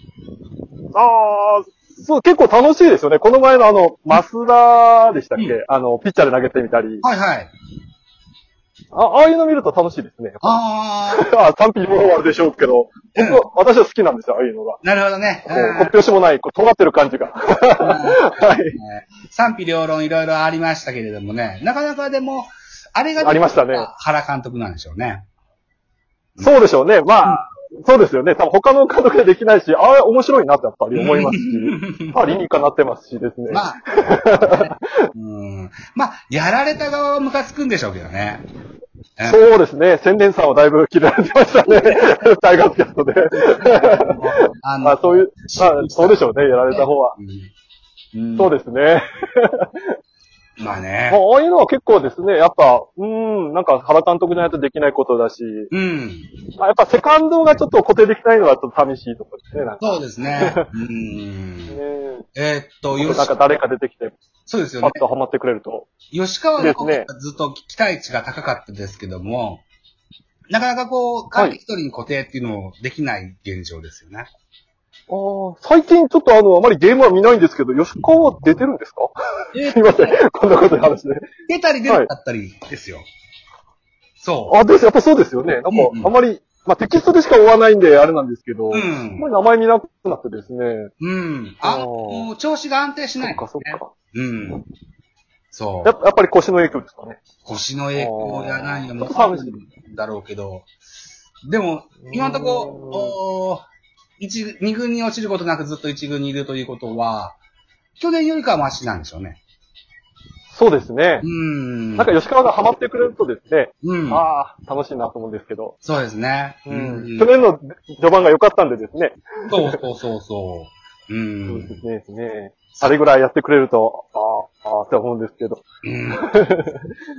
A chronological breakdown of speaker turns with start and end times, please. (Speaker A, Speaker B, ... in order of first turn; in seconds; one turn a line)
Speaker A: 0.9-7.0
Speaker B: 7.0-7.5
Speaker A: 8.9-14.8
Speaker B: 10.4-11.3
Speaker B: 13.2-13.4
Speaker B: 14.8-15.9
Speaker A: 15.5-18.8
Speaker B: 17.8-25.2
Speaker A: 23.2-23.9
Speaker A: 26.4-34.7
Speaker B: 30.9-32.2
Speaker B: 33.5-38.5
Speaker A: 39.2-47.2
Speaker B: 41.7-42.0
Speaker B: 43.3-47.5
Speaker B: 48.1-48.5
Speaker A: 48.4-50.0
Speaker B: 50.6-51.2
Speaker A: 51.1-55.7
Speaker B: 55.7-56.3
Speaker A: 56.6-60.7
Speaker B: 59.8-61.8
Speaker A: 61.7-62.3
Speaker B: 62.4-63.3
Speaker A: 63.0-64.2
Speaker B: 64.5-65.0
Speaker A: 64.8-65.9
Speaker B: 66.1-69.6
Speaker A: 66.6-67.1
Speaker B: 70.5-74.3
Speaker A: 75.1-81.3
Speaker B: 79.5-80.2
Speaker B: 81.5-83.1
Speaker B: 84.2-84.6
Speaker A: 84.5-90.9
Speaker B: 85.7-86.1
Speaker B: 88.7-89.3
Speaker B: 91.0-94.6
Speaker A: 91.6-92.3
Speaker A: 93.2-93.9
Speaker B: 95.5-96.0
Speaker A: 95.8-97.2
Speaker B: 97.5-100.7
Speaker A: 98.0-99.6
Speaker B: 101.5-103.7
Speaker A: 102.1-103.2
Speaker B: 104.2-107.4
Speaker B: 108.0-109.4
Speaker A: 110.5-111.3
Speaker B: 111.2-112.1
Speaker A: 112.0-115.8
Speaker B: 113.8-114.2
Speaker B: 115.8-117.3
Speaker A: 116.7-119.8
Speaker B: 119.5-121.8
Speaker A: 121.5-125.6
Speaker B: 125.8-126.2
Speaker A: 126.2-126.9